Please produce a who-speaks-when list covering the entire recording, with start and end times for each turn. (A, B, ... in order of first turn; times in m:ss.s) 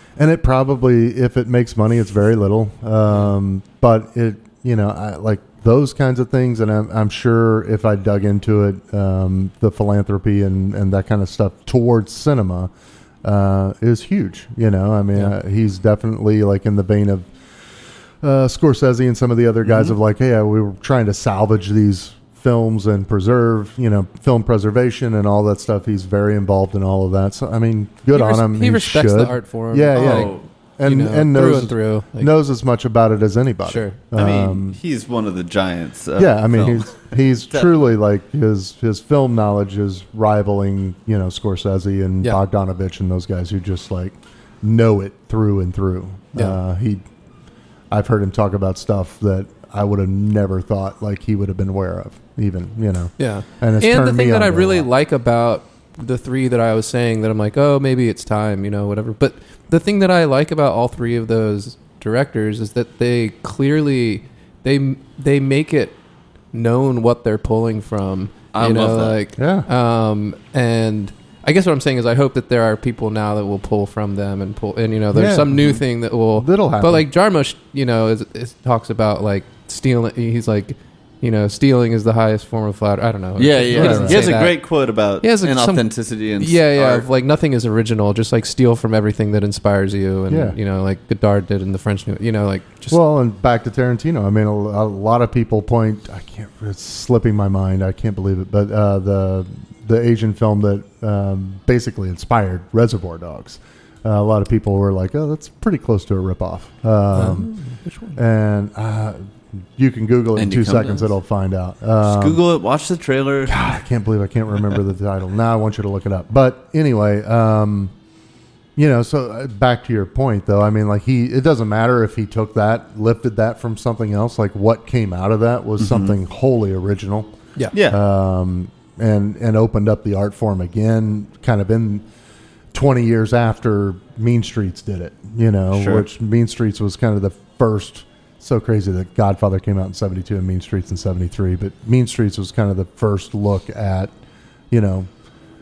0:00.2-0:12.7 A
0:13.2-0:17.3 A
0:18.2-0:34.8 A
0:19.6-0:20.0 B
0:28.1-0:32.3 C
0:29.9-0:30.5 B
0:33.7-0:34.0 C
0:34.1-0:37.7 B
0:36.2-0:47.0 A
0:47.9-0:54.9 A
0:53.2-1:06.0 C
1:06.5-1:24.7 C
1:08.5-1:09.2 B
1:09.4-1:09.7 A
1:15.1-1:17.1 A
1:23.4-1:27.1 B
1:23.7-1:24.3 A
1:25.2-1:33.0 C
1:30.3-1:30.6 A
1:32.9-1:47.6 A
1:47.1-1:48.2 C
1:48.1-1:52.4 A
1:50.4-1:51.1 B
1:52.0-1:53.7 B
1:53.5-1:57.9 A
1:58.8-2:07.3 A
2:05.8-2:06.2 B
2:07.7-2:08.0 B
2:07.8-2:12.1 A
2:12.7-2:24.1 A
2:15.7-2:16.1 B
2:24.7-2:25.1 A